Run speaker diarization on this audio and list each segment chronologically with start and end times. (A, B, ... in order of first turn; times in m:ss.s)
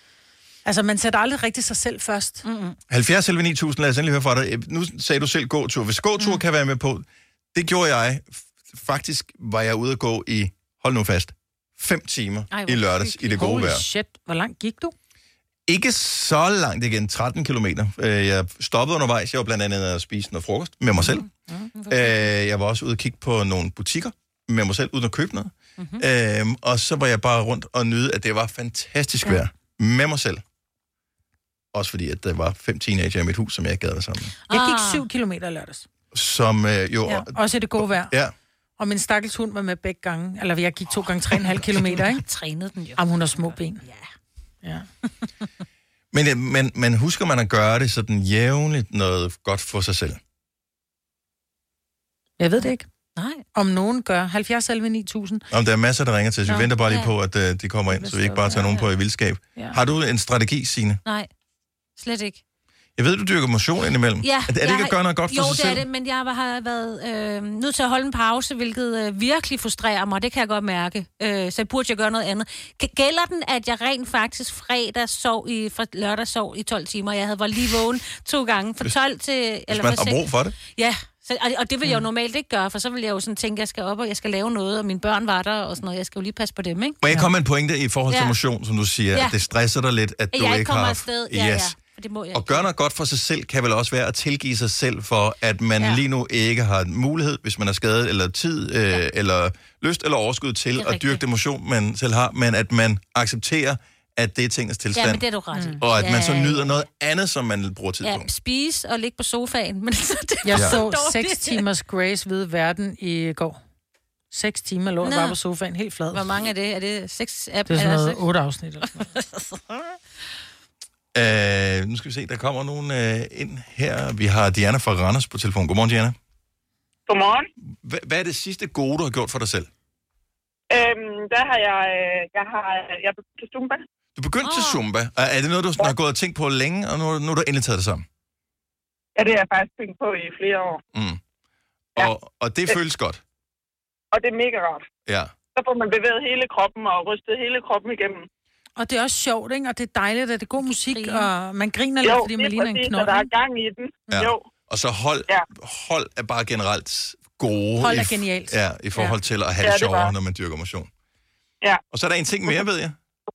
0:00.6-0:02.4 A
0:02.4-0:02.8 B
0:02.9-0:13.8 C
0:12.5-0:13.4 B
0:13.3-0:14.9 A
0:15.7-0:21.2 C
0:21.1-0:22.2 B
0:21.9-0:30.4 C
0:31.7-0:34.3 C
0:34.5-0:35.0 B
0:34.5-0:35.9 A
0:36.1-0:38.3 C
0:37.1-0:38.1 A
0:38.8-0:42.2 A
0:41.8-0:44.1 B
0:43.0-0:43.8 A
0:46.1-0:50.2 C
0:52.4-0:52.9 A
0:53.2-0:53.4 B
0:53.6-0:55.4 A
0:55.5-1:01.0 C
0:56.9-0:57.1 B
0:57.9-0:58.8 A
1:02.0-1:02.4 B
1:03.0-1:05.8 C
1:04.2-1:27.0 B
1:19.7-1:20.6 C
1:27.0-1:31.7 C
1:28.1-1:28.4 B
1:30.3-1:32.6 B
1:32.3-1:45.2 C
1:40.8-1:41.2 B
1:44.9-1:46.7 B
1:45.5-1:45.8 A
1:45.8-1:48.3 C
1:48.0-1:51.6 B
1:50.4-1:53.6 A
1:54.3-1:56.3 A
1:55.0-1:55.4 B
1:56.1-1:58.2 B
1:57.7-1:59.1 A
1:58.8-1:59.8 B
2:01.1-2:06.2 C
2:07.1-2:07.5 D
2:07.6-2:09.7 C
2:10.7-2:13.8 D
2:14.2-2:18.1 C
2:14.4-2:14.8 B
2:19.2-2:20.8 D
2:20.9-2:21.2 C
2:21.9-2:23.2 C
2:24.1-2:24.8 D
2:25.1-2:25.3 C
2:25.6-2:28.2 D
2:28.8-2:33.3 A
2:30.6-2:31.3 B
2:32.0-2:34.4 D
2:34.1-2:40.9 C
2:37.8-2:39.1 A
2:39.6-2:40.1 D
2:41.9-2:43.0 C